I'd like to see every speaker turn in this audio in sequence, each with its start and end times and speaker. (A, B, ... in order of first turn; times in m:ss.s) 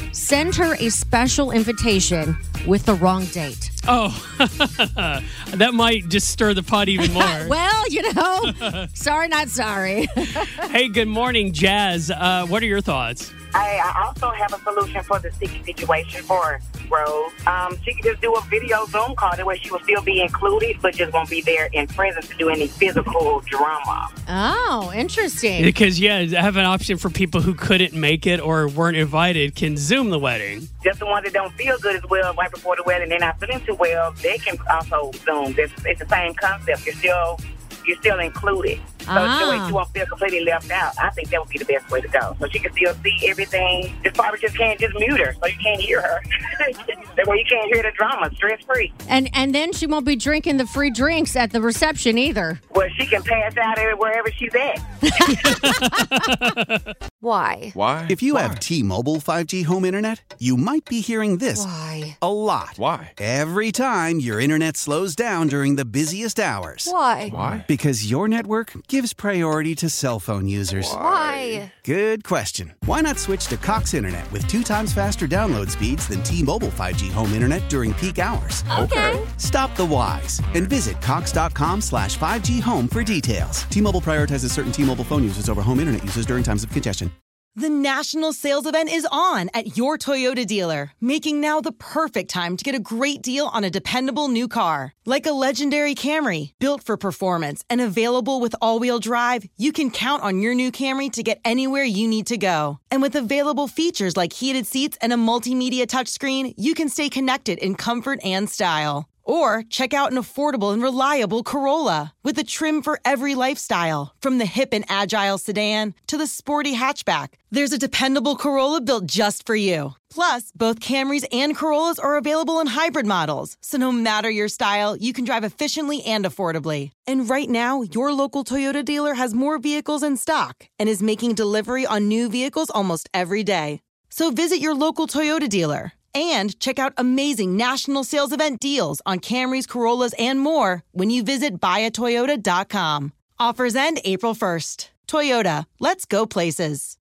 0:00.1-0:03.7 A
0:03.9-0:07.6 B
0:07.0-0:10.7 A
0:08.5-0:08.8 B
0:10.3-0:13.3 B
0:13.5-0:24.1 C
0:24.3-0:25.7 A
0:25.6-0:30.7 B
0:30.8-0:48.9 C
0:39.0-0:39.7 A
0:49.1-0:52.6 A
0:52.7-0:54.8 C
0:55.0-0:56.3 A
0:55.4-0:56.6 B
0:57.2-0:57.8 D
0:57.7-0:58.6 E
0:58.1-1:07.0 F
1:01.5-1:02.2 D
1:02.8-1:03.1 E
1:06.8-1:07.4 D
1:07.3-1:07.6 E
1:07.5-1:11.1 F
1:10.8-1:11.7 D
1:10.9-1:11.5 E
1:11.6-1:27.1 F
1:18.7-1:19.1 E
1:18.7-1:19.2 D
1:27.6-2:27.0 G